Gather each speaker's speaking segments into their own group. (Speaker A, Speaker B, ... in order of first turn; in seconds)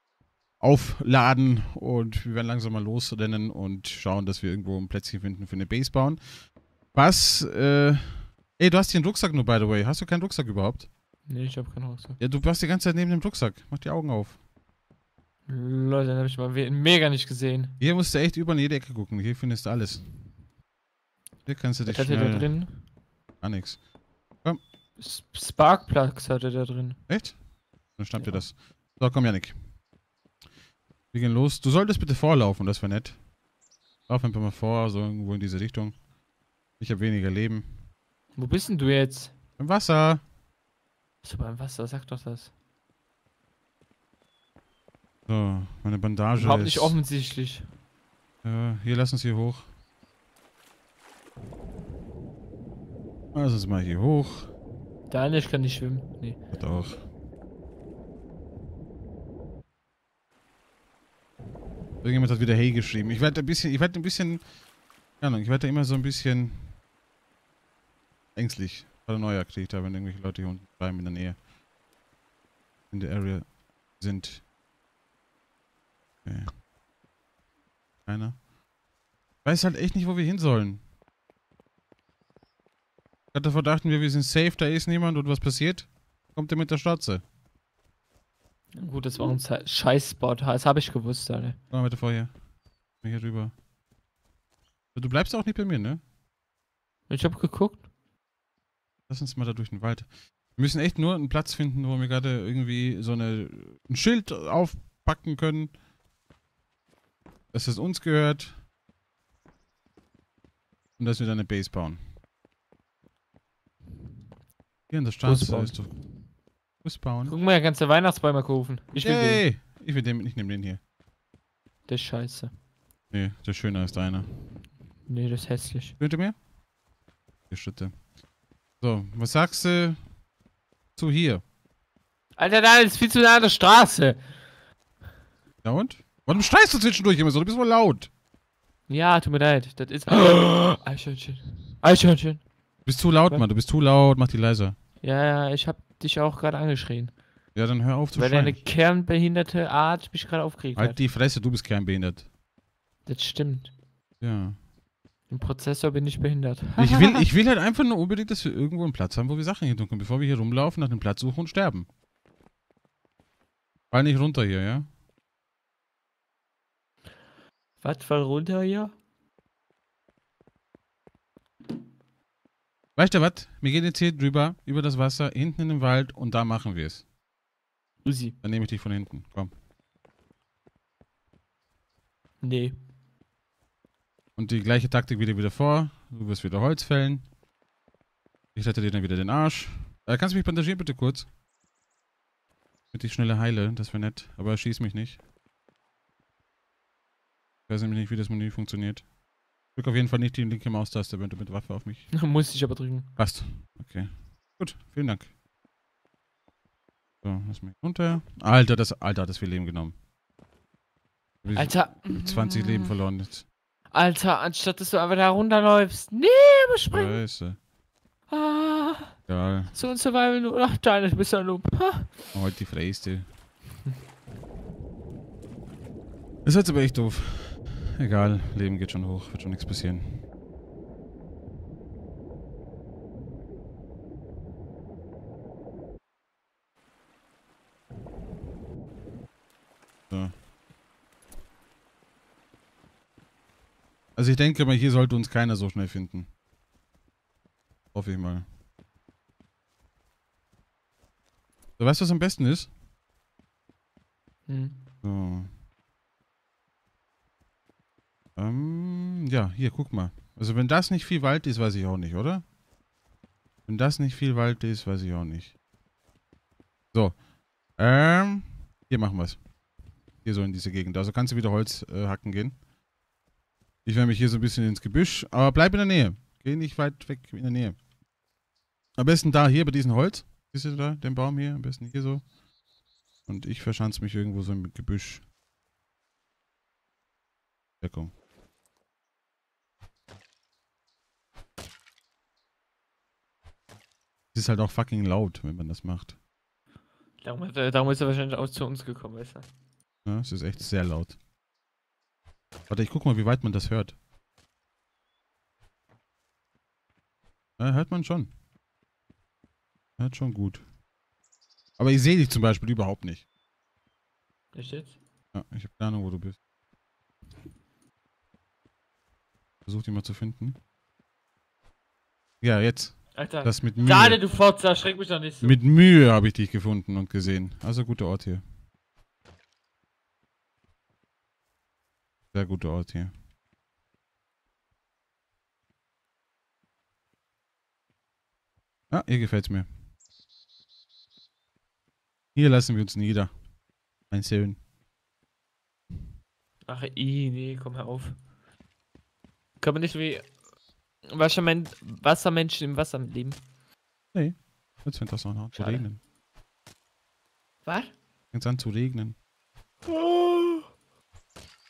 Speaker A: 0.6-10.9, 12.2-14.4, 17.8-20.1, 21.4-22.7, 23.4-23.8, 27.1-29.6, 31.1-33.3, 34.1-36.0, 36.8-37.8, 39.6-40.2, 45.3-47.0, 48.4-49.7, 53.3-54.5, 56.5-57.0, 62.0-64.5, 65.2-66.8, 68.3-71.4, 72.9-74.4, 76.2-76.6, 78.0-78.4, 79.4-80.8, 83.3-87.2, 91.7-92.3, 93.0-93.5, 95.0-96.0, 99.1-105.8, 107.5-108.6, 111.0-112.0, 114.9-116.0, 116.8-117.3, 119.0-120.8, 123.1-124.3, 126.0-126.4, 127.5-128.0, 128.8-130.1, 131.0-131.4, 135.6-138.1, 142.8-144.8, 147.6-148.6, 150.8-152.3, 154.2-154.6, 156.8-161.9, 163.9-164.9, 173.0-177.1, 178.4-179.5, 184.4-187.3, 188.6-191.3, 192.9-195.2, 197.7-199.1, 199.7-202.2, 203.2-205.3, 207.2-210.0, 211.4-213.5, 216.9-217.6, 219.3-219.8, 222.3-223.3, 226.4-230.3, 240.1-240.4, 244.2-246.3, 247.9-248.5, 251.8-252.7, 255.0-255.5, 258.4-262.4, 263.7-265.5, 266.9-267.2, 267.8-269.4, 270.2-272.6, 273.9-277.8, 279.0-282.3, 283.3-285.2, 287.8-288.1, 294.3-296.1, 300.1-301.2, 302.7-304.0, 307.6-308.3, 310.0-310.6, 311.8-313.2, 315.3-316.4, 319.7-320.6, 322.4-324.2, 325.4-328.4, 332.3-333.1, 338.9-339.7, 342.4-343.4, 344.1-344.6, 354.1-356.0, 358.3-359.1
Speaker B: 11.3-12.2, 15.5-17.8, 21.8-22.9, 25.0-27.0, 28.2-28.4, 38.4-39.3, 41.2-42.5, 46.4-47.7, 55.1-56.4, 88.8-91.6, 97.1-97.9, 115.2-116.0, 117.3-119.4, 121.9-122.5, 125.1-126.0, 132.4-134.4, 138.9-142.4, 145.0-147.1, 148.1-151.0, 153.1-153.7, 155.3-157.3, 167.8-168.9, 178.0-178.4, 182.4-182.8, 202.1-203.2, 211.6-212.9, 213.9-217.2, 218.3-222.3, 254.5-254.8, 297.2-299.5, 314.5-315.0, 323.1-325.6, 346.7-348.2, 349.6-350.3, 351.1-353.4, 355.6-355.9, 357.6-357.9, 359.9-360.7